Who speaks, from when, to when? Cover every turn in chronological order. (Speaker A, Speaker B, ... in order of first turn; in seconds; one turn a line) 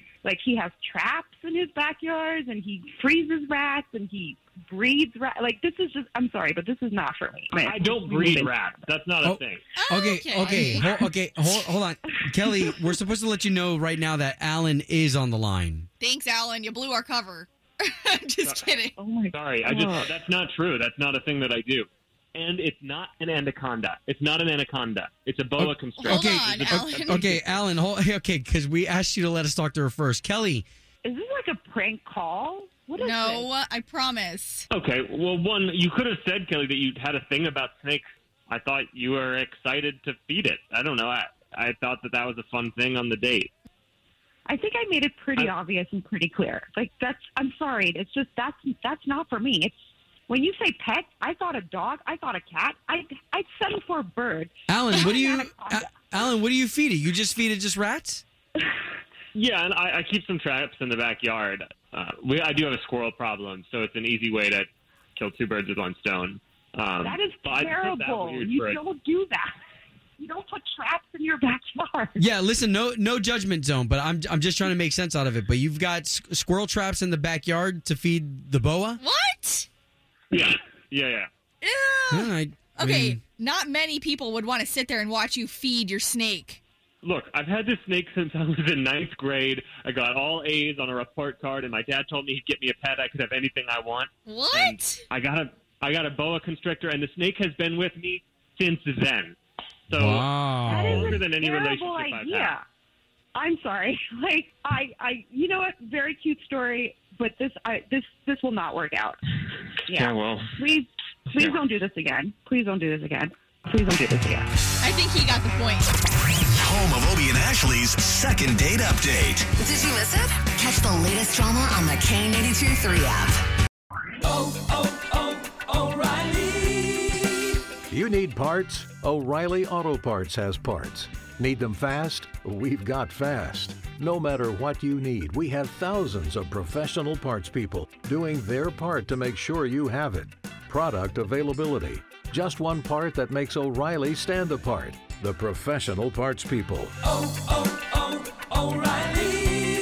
Speaker A: 0.2-8.5
Speaker B: 7.5-9.7
Speaker C: 9.2-15.9
Speaker D: 9.7-10.9
Speaker A: 10.6-11.0
Speaker D: 16.0-18.9
Speaker B: 18.4-27.7
Speaker A: 18.9-20.1
Speaker C: 25.6-30.6
Speaker D: 26.0-27.2
Speaker A: 31.0-33.5
Speaker D: 33.0-34.7
Speaker B: 34.7-43.5
Speaker A: 44.5-49.8
Speaker A: 50.3-56.3
Speaker C: 54.7-58.2
Speaker B: 59.3-68.8
Speaker A: 67.0-69.5
Speaker A: 70.2-72.3
Speaker C: 72.2-79.0
Speaker D: 79.0-79.7
Speaker B: 80.3-81.3
Speaker D: 81.6-86.6
Speaker C: 82.1-83.2
Speaker B: 87.0-99.3
Speaker D: 94.2-95.0
Speaker B: 99.9-102.5
Speaker C: 99.9-101.2
Speaker A: 100.7-102.6
Speaker A: 103.3-109.2
Speaker A: 109.8-114.5
Speaker B: 110.0-110.5
Speaker D: 114.8-115.9
Speaker E: 116.5-119.5
Speaker F: 119.6-123.4
Speaker G: 127.9-147.0
Speaker G: 148.7-149.2